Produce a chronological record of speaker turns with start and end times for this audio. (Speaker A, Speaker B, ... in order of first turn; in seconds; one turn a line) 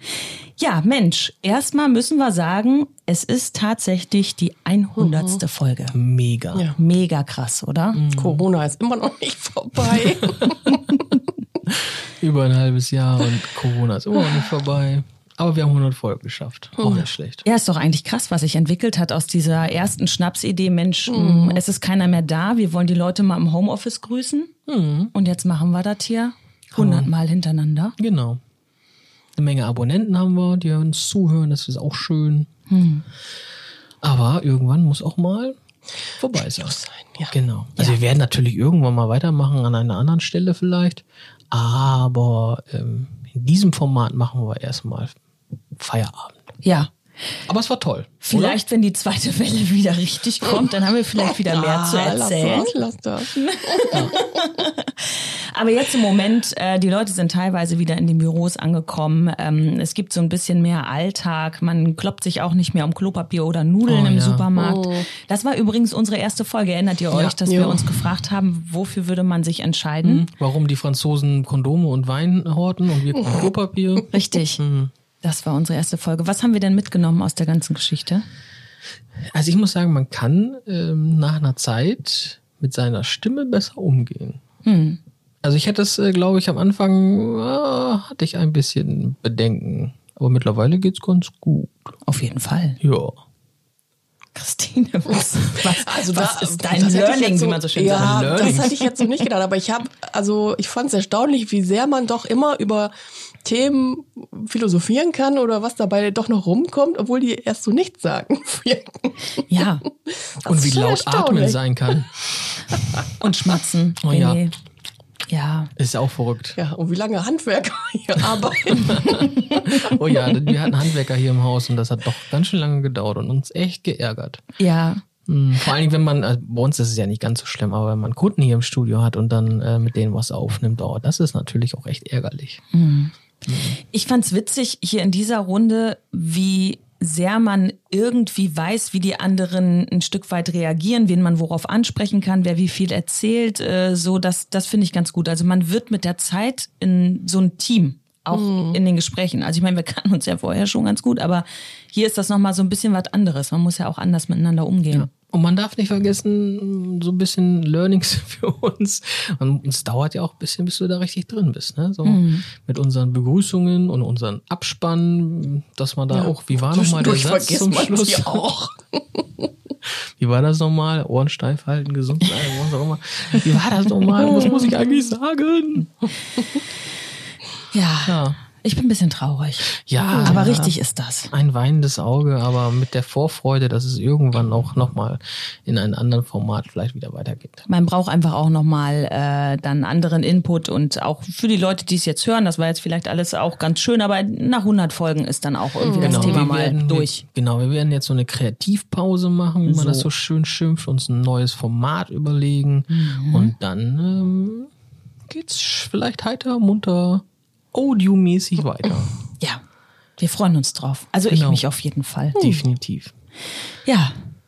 Speaker A: 0.6-6.0
Speaker B: 5.0-5.4
Speaker C: 5.9-6.7
Speaker A: 6.8-8.1
Speaker C: 8.0-8.4
Speaker B: 8.1-11.1
Speaker C: 11.7-17.4
Speaker B: 16.8-17.1
Speaker A: 17.4-24.5
Speaker B: 21.1-21.6
Speaker C: 24.7-25.1
Speaker A: 25.1-28.0
Speaker C: 26.7-27.1
Speaker C: 28.0-28.4
Speaker C: 29.4-32.5
Speaker A: 32.7-33.0
Speaker C: 34.0-35.6
Speaker B: 36.2-37.4
Speaker C: 36.2-36.8
Speaker C: 37.3-45.2
Speaker C: 45.8-46.5
Speaker A: 46.6-46.9
Speaker C: 47.5-48.6
Speaker A: 48.2-52.7
Speaker B: 51.4-54.1
Speaker A: 53.3-70.2
Speaker C: 63.9-64.5
Speaker B: 64.5-65.1
Speaker C: 67.1-67.4
Speaker B: 67.5-68.0
Speaker C: 70.0-74.9
Speaker A: 74.1-74.6
Speaker A: 75.2-78.2
Speaker C: 79.3-84.4
Speaker A: 84.6-85.0
Speaker C: 85.4-91.9
Speaker A: 92.0-92.8
Speaker C: 92.8-93.2
Speaker A: 94.3-98.7
Speaker B: 95.6-109.2
Speaker C: 97.9-98.7
Speaker A: 109.5-109.8
Speaker B: 110.1-112.0
Speaker C: 110.4-112.6
Speaker A: 113.2-114.5
Speaker C: 113.2-114.4
Speaker A: 115.3-115.7
Speaker C: 115.8-116.6
Speaker B: 116.6-120.2
Speaker C: 118.8-124.4
Speaker A: 124.6-125.0
Speaker C: 125.3-132.6
Speaker A: 132.7-133.1
Speaker C: 133.5-133.8
Speaker A: 133.8-155.1
Speaker B: 148.3-148.8
Speaker C: 154.9-168.5
Speaker A: 162.0-162.5
Speaker B: 166.1-169.2
Speaker C: 169.8-176.1
Speaker B: 174.3-174.6
Speaker A: 177.7-181.3
Speaker C: 178.1-178.4
Speaker C: 179.7-180.8
Speaker C: 181.3-187.7
Speaker A: 187.7-197.2
Speaker B: 195.8-196.4
Speaker C: 196.0-204.7
Speaker A: 199.7-200.1
Speaker A: 202.9-203.5
Speaker C: 205.3-209.2
Speaker A: 210.2-212.4
Speaker C: 211.3-211.7
Speaker C: 212.3-213.1
Speaker A: 213.8-214.2